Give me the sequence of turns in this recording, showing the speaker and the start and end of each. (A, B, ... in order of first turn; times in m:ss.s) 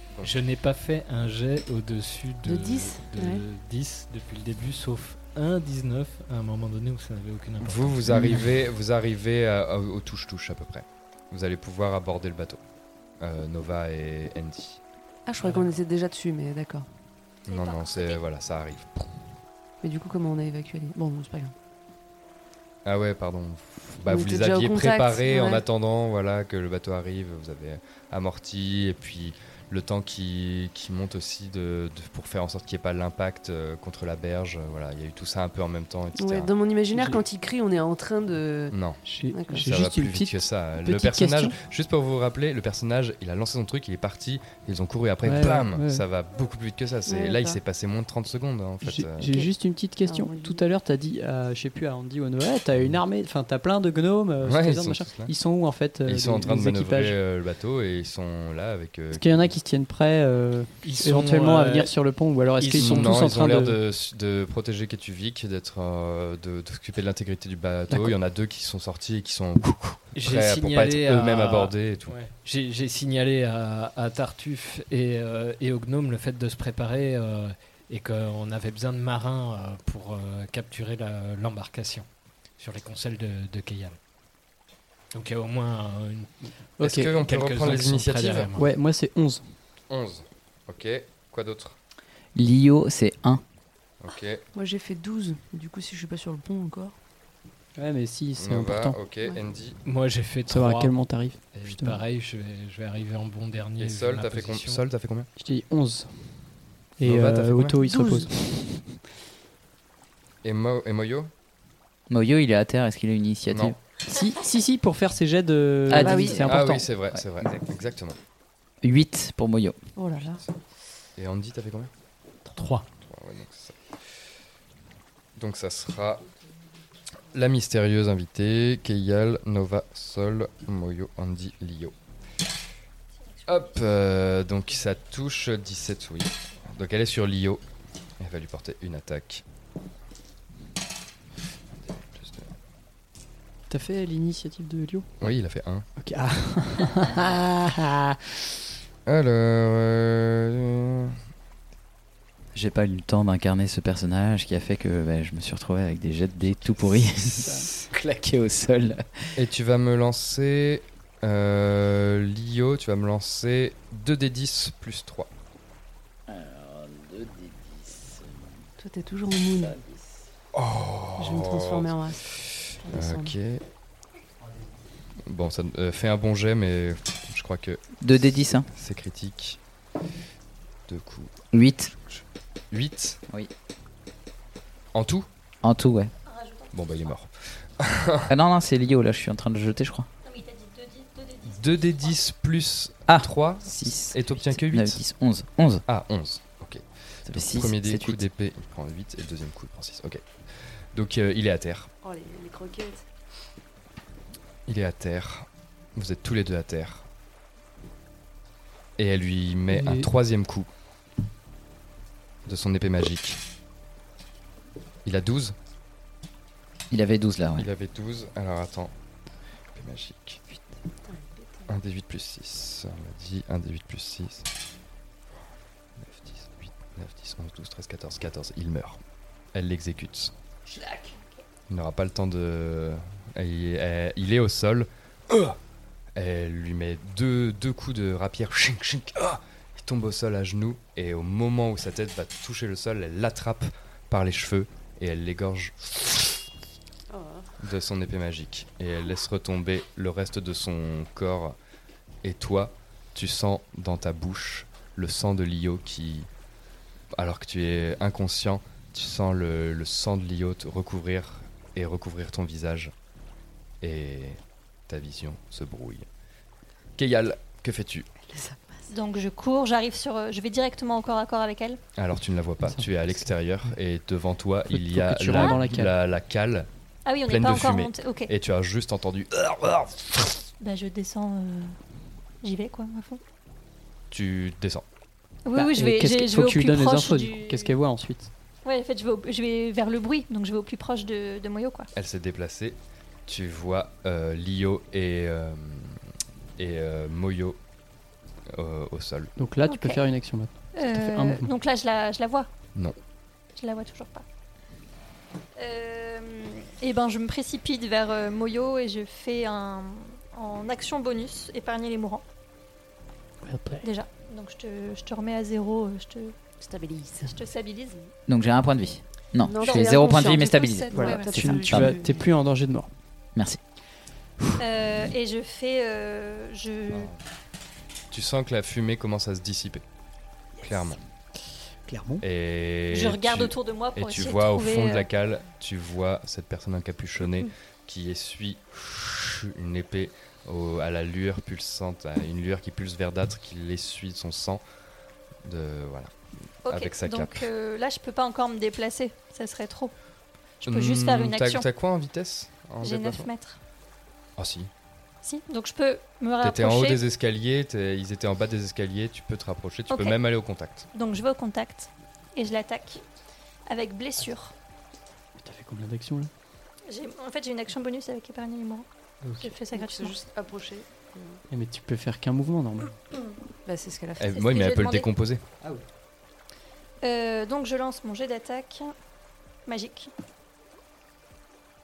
0:00.2-0:08.4 A
0:02.4-0:03.4 B
0:07.6-0:12.6 C
0:13.2-0:14.8 C
0:15.3-0:16.9 B
0:15.4-0:15.8 A
0:17.5-0:18.2 D
0:17.5-0:19.0 C
0:19.8-0:21.5 B
0:22.8-0:36.5 C
0:24.1-0:25.6 B
0:36.2-0:38.8 B
0:36.9-0:37.2 E
0:38.7-0:39.0 C
0:39.0-0:41.6 E
0:39.3-0:39.7 B
0:39.6-0:49.3 C
0:45.2-0:46.0 E
0:47.1-0:47.6 B
0:48.8-0:57.2 E
0:50.0-0:50.7 B
0:54.4-0:55.3 C
0:56.0-0:59.6 C
0:59.1-1:03.8 E
1:00.8-1:01.9 A
1:02.6-1:03.3 A
1:02.7-1:12.2 C
1:10.2-1:22.1 A
1:22.6-1:24.0 A
1:25.1-1:26.4 A
1:26.8-1:27.1 E
1:26.8-1:28.5 C
1:27.2-1:28.7 A
1:28.6-1:29.4 E
1:29.9-1:31.8 C
1:32.4-1:33.4 F
1:34.0-1:34.4 C
1:34.5-1:37.0 B
1:37.8-1:39.0 E
1:38.4-1:39.8 C
1:39.8-1:41.0 A
1:40.5-1:42.0 E
1:41.5-1:44.8 A
1:43.8-1:45.3 C
1:45.4-1:46.4 E
1:47.0-1:48.9 E
1:47.0-1:47.8 C
1:47.8-1:48.3 B
1:50.4-1:51.3 C
1:52.1-1:53.8 F
1:53.5-1:53.8 C
1:54.1-1:56.9 E
1:55.9-1:56.6 F
1:56.0-1:56.4 B
1:56.3-1:58.2 C
1:57.1-1:57.6 F
1:58.8-1:59.8 F
2:00.0-2:00.4 B
2:01.2-2:01.9 C
2:02.6-2:02.9 A
2:03.1-2:03.8 C
2:05.4-2:06.2 C
2:07.3-2:11.9 C
2:13.2-2:13.8 D
2:13.5-2:17.6 C
2:18.2-2:19.4 C
2:21.9-2:22.5 C
2:23.7-2:25.1 E
2:25.2-2:25.9 C
2:26.0-2:28.2 E
2:29.1-2:31.2 C
2:32.5-2:39.3 F
2:37.4-2:37.7 E
2:39.4-2:45.3 C
2:46.3-2:48.4 F
2:48.8-2:49.8 B
2:49.6-2:50.1 F
2:50.5-2:51.9 C
2:51.2-2:52.3 B
2:52.5-2:53.6 C
2:52.8-2:53.3 B
2:55.3-2:57.8 C
2:58.0-2:58.7 F
2:58.7-2:59.6 C
3:00.9-3:01.3 C
3:01.5-3:01.9 F
3:02.1-3:03.2 C
3:04.9-3:05.3 C
3:05.6-3:06.1 F
3:06.3-3:06.8 D
3:06.7-3:08.3 C
3:08.3-3:10.1 F
3:10.2-3:12.2 D
3:11.5-3:15.0 C
3:13.1-3:15.8 F
3:15.9-3:20.2 C
3:17.3-3:18.2 F
3:20.9-3:21.9 C
3:22.0-3:23.0 B
3:24.7-3:27.1 C
3:29.0-3:30.7 C
3:29.7-3:30.1 E
3:32.5-3:33.4 C
3:35.0-3:35.6 C
3:36.9-3:37.7 F
3:37.6-3:38.9 C
3:39.7-3:40.4 C
3:41.1-3:41.7 B
3:41.7-3:44.5 C
3:46.0-3:49.0 C
3:49.5-3:50.3 C
3:50.7-3:51.1 E
3:51.7-3:55.6 C
3:56.2-4:05.9 C
4:07.1-4:07.5 B
4:07.6-4:11.6 C
4:12.2-4:16.3 C
4:17.1-4:22.9 C
4:23.8-4:26.0 C
4:27.0-4:28.1 C
4:28.3-4:28.8 B
4:28.9-4:31.8 D
4:32.0-4:36.7 C
4:34.7-4:35.9 E
4:35.3-4:35.6 D
4:37.0-4:38.3 D
4:37.3-4:40.3 C
4:40.6-4:41.8 D
4:42.4-4:43.2 D
4:44.1-4:44.8 C
4:45.4-4:47.7 D
4:45.6-4:48.3 E
4:48.6-4:51.9 D
4:52.0-4:56.0 C
4:56.6-4:57.6 C
4:58.5-4:59.3 C
4:59.4-5:01.5 E
4:59.6-5:00.0 D
5:00.7-5:02.5 D
5:03.6-5:04.2 D
5:05.6-5:12.2 D
5:13.4-5:13.9 E
5:13.8-5:16.4 D
5:16.6-5:17.4 B
5:17.3-5:18.0 D
5:18.3-5:22.0 F
5:19.4-5:22.2 B
5:19.6-5:21.4 D
5:20.9-5:22.9 E
5:24.6-5:27.1 D
5:28.1-5:29.8 C
5:30.6-5:31.0 C
5:31.9-5:32.2 E
5:32.2-5:44.6 C
5:32.9-5:35.1 D
5:45.4-5:46.1 C
5:46.6-5:49.9 D
5:46.7-5:47.5 C
5:50.6-5:51.7 D
5:50.7-5:53.3 C
5:52.8-5:53.6 D
5:54.4-5:54.7 C
5:55.2-5:57.0 D
5:56.4-6:00.9 C
5:59.9-6:00.2 D
6:00.9-6:03.0 D
6:03.7-6:04.5 D
6:05.4-6:06.3 E
6:06.9-6:08.9 D
6:09.2-6:09.6 E
6:09.4-6:10.2 D
6:09.7-6:11.4 B
6:11.5-6:13.0 E
6:13.7-6:14.4 B
6:14.2-6:15.4 C
6:14.3-6:15.1 D
6:17.0-6:18.9 D
6:19.7-6:20.1 D